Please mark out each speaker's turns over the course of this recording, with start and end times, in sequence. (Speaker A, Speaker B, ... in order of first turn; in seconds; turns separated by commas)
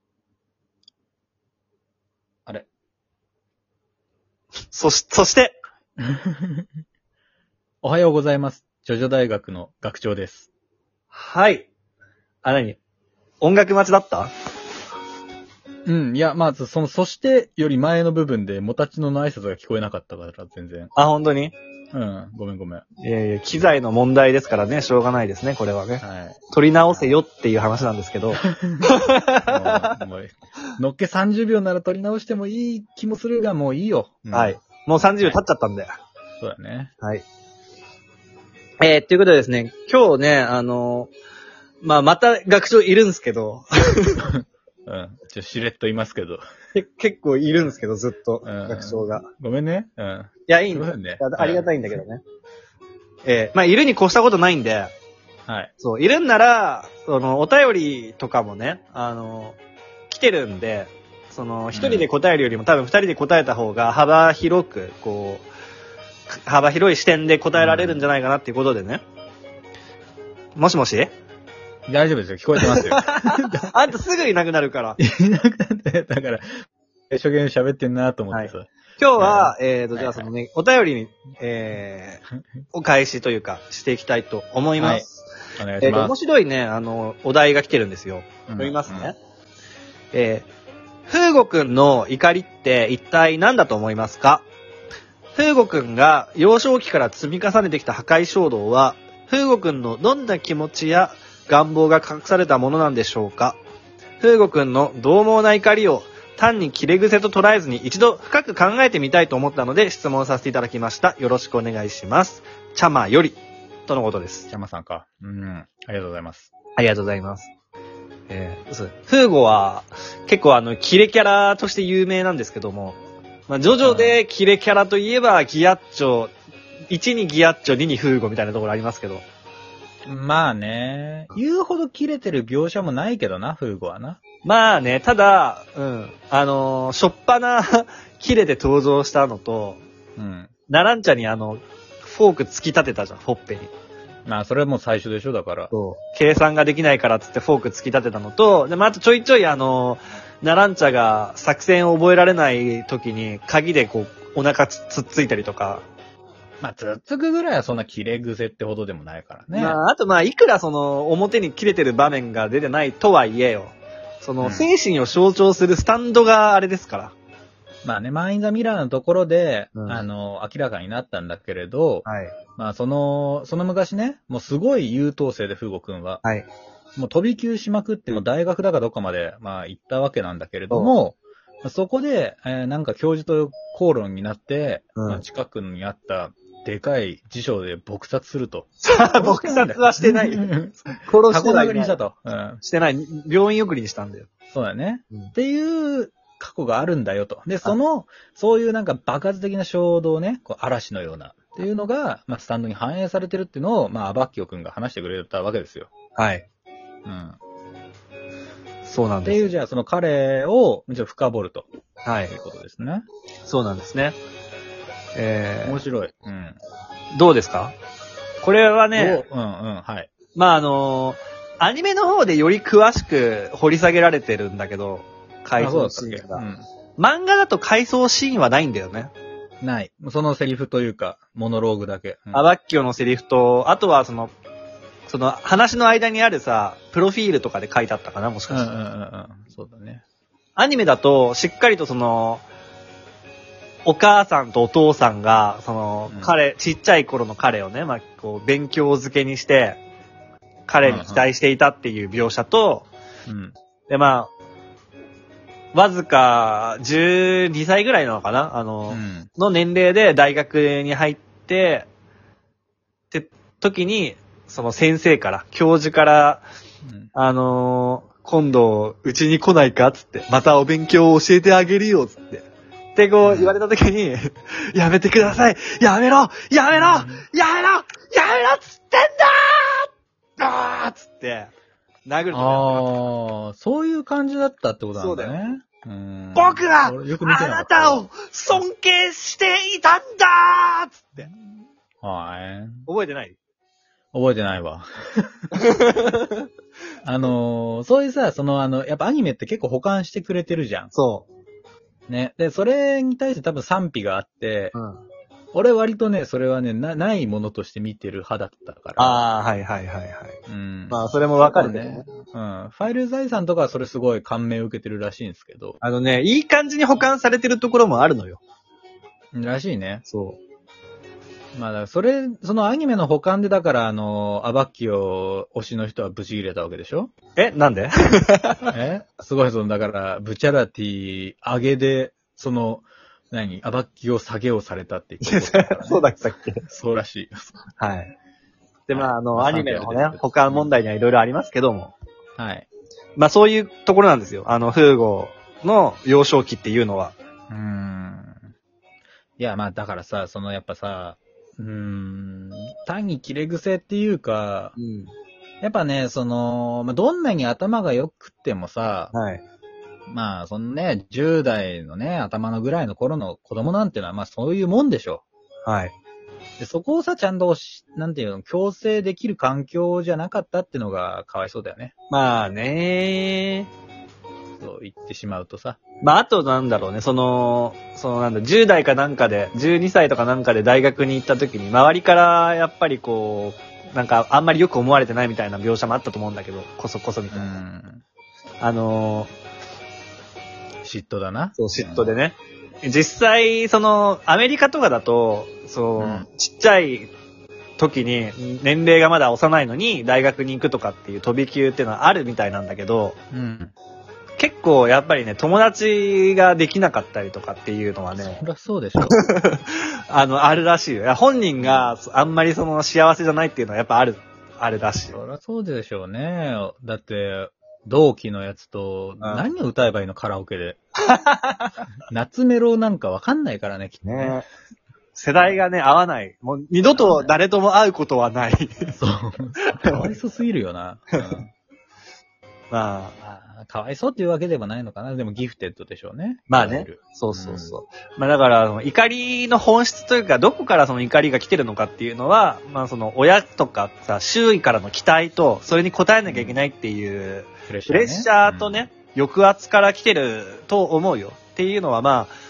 Speaker A: 4.7-5.6, Speaker B: 6.0-6.7, Speaker B: 7.8-10.5, Speaker A: 11.1-11.7, Speaker A: 12.4-12.8, Speaker A: 13.4-14.3, Speaker B: 15.9-20.9, Speaker A: 20.9-21.6, Speaker B: 21.9-22.9, Speaker A: 23.0-30.0, Speaker B: 26.0-26.4, Speaker B: 28.4-28.9, Speaker B: 29.5-34.6, Speaker A: 34.3-35.9, Speaker B: 36.4-36.9, Speaker A: 38.8-41.1, Speaker A: 41.8-44.3, Speaker B: 44.2-46.4, Speaker A: 46.8-49.3, Speaker B: 48.4-52.0, Speaker A: 50.5-52.2, Speaker A: 53.2-54.9, Speaker B: 55.5-55.7, Speaker A: 55.8-59.6, Speaker A: 60.1-65.5, Speaker B: 61.7-62.1, Speaker A: 66.3-69.0, Speaker B: 67.6-68.1, Speaker A: 70.6-71.1, Speaker B: 71.9-73.7, Speaker A: 72.6-75.0, Speaker B: 75.0-76.5, Speaker B: 77.1-80.3, Speaker A: 78.3-82.2, Speaker A: 82.7-85.2, Speaker B: 84.8-85.1, Speaker B: 85.6-86.2, Speaker A: 85.8-89.2, Speaker B: 88.5-89.1, Speaker A: 90.1-90.5, Speaker A: 91.1-94.5, Speaker A: 95.3-103.6, Speaker A: 104.2-114.5, Speaker B: 114.5-116.5, Speaker A: 116.8-117.5, Speaker A: 118.3-123.0, Speaker A: 123.5-126.3, Speaker B: 123.8-124.2, Speaker A: 126.9-129.2, Speaker B: 130.1-134.2, Speaker A: 134.4-139.8, Speaker B: 140.2-140.5, Speaker A: 140.7-143.7, Speaker B: 144.3-145.7, Speaker A: 145.7-155.8, Speaker B: 156.6-159.8, Speaker A: 159.5-167.1, Speaker B: 164.4-164.7, Speaker B: 167.8-172.1, Speaker A: 169.8-170.0, Speaker A: 172.1-172.3, Speaker B: 172.6-176.2, Speaker B: 177.0-192.6, Speaker A: 185.0-185.2, Speaker A: 188.8-190.5, Speaker A: 191.1-192.0, Speaker A: 192.6-194.3, Speaker B: 194.5-205.9, Speaker A: 206.2-206.4, Speaker B: 207.1-207.4, Speaker A: 208.8-209.4, Speaker B: 209.2-211.7, Speaker A: 212.1-212.3, Speaker B: 212.3-213.1, Speaker A: 213.5-214.2, Speaker A: 215.2-215.8, Speaker B: 215.7-216.6, Speaker A: 217.2-217.8, Speaker A: 218.4-219.2, Speaker B: 219.0-220.1, Speaker A: 220.3-226.4, Speaker B: 225.6-226.7, Speaker A: 227.0-229.1, Speaker B: 229.6-232.5, Speaker A: 232.3-234.3, Speaker A: 235.1-238.7, Speaker B: 238.5-240.0, Speaker A: 240.6-242.5, Speaker A: 243.8-249.8, Speaker A: 250.7-252.9, Speaker B: 250.8-251.3, Speaker B: 253.3-253.6, Speaker A: 253.9-254.3, Speaker A: 255.7-261.9, Speaker B: 258.9-259.3, Speaker A: 263.1-266.4, Speaker B: 266.9-267.1, Speaker A: 267.1-281.5, Speaker B: 273.2-273.6, Speaker B: 276.7-277.2, Speaker A: 282.1-282.9, Speaker B: 282.3-288.6, Speaker A: 285.0-285.5, Speaker A: 286.4-291.3, Speaker B: 292.0-292.9, Speaker A: 292.9-293.4, Speaker B: 294.1-295.5, Speaker A: 295.6-296.5, Speaker B: 297.0-300.9, Speaker A: 300.9-301.3, Speaker B: 302.1-304.8, Speaker A: 304.8-305.0, Speaker B: 305.5-309.2, Speaker A: 309.0-310.4, Speaker B: 310.5-315.8, Speaker A: 310.9-312.1, Speaker A: 315.8-318.4, Speaker B: 319.3-320.0, Speaker A: 320.1-320.4, Speaker B: 321.6-327.1, Speaker A: 327.4-328.7, Speaker B: 328.7-336.1, Speaker A: 335.2-336.6, Speaker B: 336.7-337.5, Speaker A: 337.8-338.1, Speaker A: 338.9-341.9, Speaker B: 338.9-340.7, Speaker B: 342.4-342.7, Speaker A: 343.2-347.2, Speaker B: 347.5-348.4, Speaker B: 349.4-354.8, Speaker A: 354.8-355.1, Speaker B: 355.6-359.1, Speaker A: 359.1-359.4, Speaker B: 360.1-365.2, Speaker A: 365.7-365.9, Speaker B: 366.6-371.9, Speaker A: 372.1-373.7, Speaker B: 374.6-375.8, Speaker A: 376.0-387.6, Speaker B: 387.3-388.0, Speaker A: 388.6-389.3, Speaker B: 390.8-392.1, Speaker A: 391.6-397.1, Speaker B: 396.0-396.3, Speaker A: 397.8-403.2, Speaker B: 403.3-403.7, Speaker A: 404.4-408.4, Speaker B: 408.2-409.2, Speaker A: 409.0-415.2, Speaker B: 411.6-411.9, Speaker B: 415.1-420.8, Speaker A: 419.2-419.5, Speaker A: 421.1-421.7, Speaker B: 422.1-424.4, Speaker A: 424.1-424.5, Speaker A: 425.1-428.9, Speaker B: 425.4-425.6, Speaker B: 426.9-427.3, Speaker B: 428.9-431.5, Speaker A: 429.8-430.1, Speaker A: 432.7-433.2, Speaker B: 433.2-437.8, Speaker A: 436.5-452.3, Speaker B: 446.3-446.6, Speaker B: 447.7-448.8